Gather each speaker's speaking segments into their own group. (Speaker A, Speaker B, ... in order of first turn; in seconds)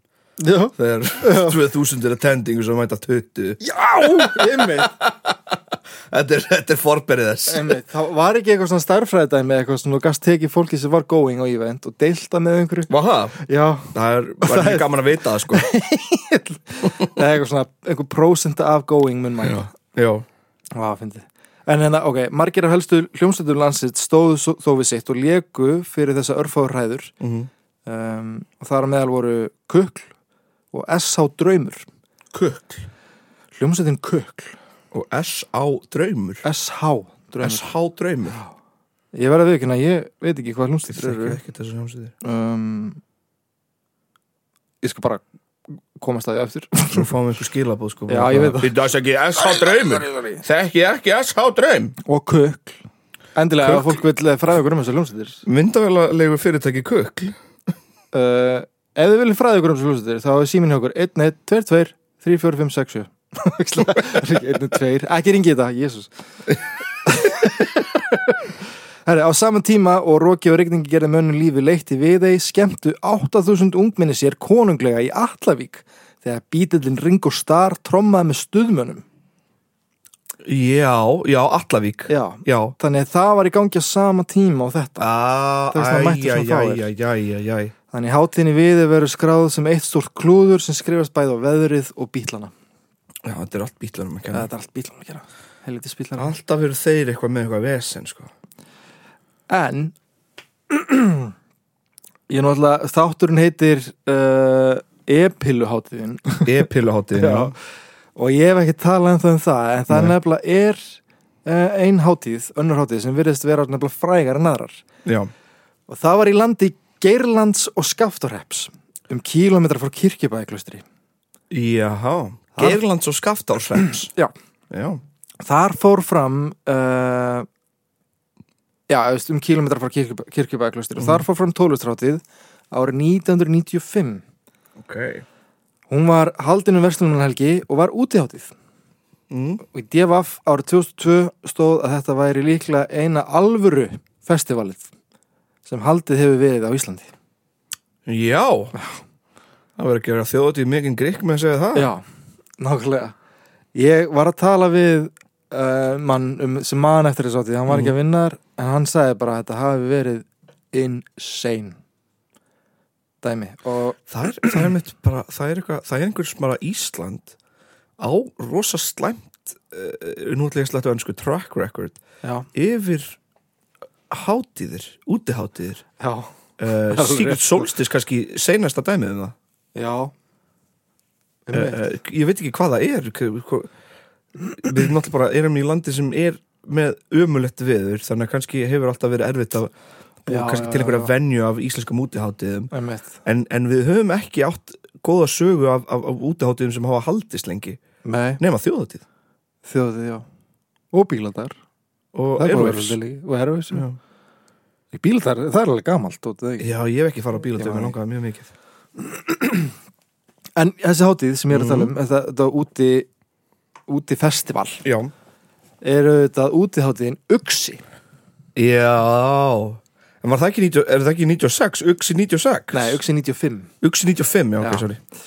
Speaker A: 0.4-1.6, 3.6-4.9, 7.5-19.7, 20.7-27.1, 27.9-30.1, 30.7-31.9, 33.6-34.6, 36.4-37.7, 39.1-41.4, 42.2-43.0, 44.8-45.2, 46.0-47.1, 48.1-48.7, 50.1-50.4, 52.0-52.8, 53.4-55.4, 58.1-66.1, 67.0-79.0, 82.1-85.1, 85.7-86.9, 87.9-92.5, 94.3-96.3, 99.5-100.0, 100.7-101.3, 102.3-107.5, 108.2-114.8, 115.9-120.8, 125.4-127.5, 128.9-134.2, 135.9-138.5, 139.6-144.9, 145.7-147.1, 151.8-152.0, 152.6-153.2, 153.8-161.8, 163.2-164.0, 172.2-172.5, 176.0-176.3, 176.9-177.7, 179.8-180.1, 181.5-181.8, 190.3-191.1, 192.7-193.2, 198.0-198.4, 199.7-200.2, 200.9-201.5, 202.4-203.8, 204.9-206.7, 207.6-207.9, 209.0-209.7, 210.6-213.1, 213.9-214.8, 215.8-217.8, 222.7-223.7, 224.6-224.9
Speaker B: 0.8-5.4, 6.1-7.7, 12.9-15.7, 19.4-20.3, 27.2-27.5, 32.3-32.9, 34.9-36.5, 37.4-38.4, 40.9-42.1, 46.9-52.0, 53.6-54.0, 55.5-57.4, 80.5-82.8, 85.0-87.7, 93.2-94.5, 96.2-98.3, 106.5-107.5, 115.1-115.3, 121.5-124.1, 124.7-125.0, 131.0-131.2, 134.8-135.2, 139.3-139.6, 148.1-148.8, 149.8-151.9, 164.1-167.4, 168.0-172.0, 172.5-173.2, 174.1-175.8, 176.6-179.3, 181.5-183.7, 184.5-189.7, 190.3-192.7, 193.2-197.8, 198.4-199.0, 202.1-203.0, 203.7-204.0, 206.6-208.5, 211.5-211.9, 214.8-215.1, 218.6-223.0, 223.8-225.0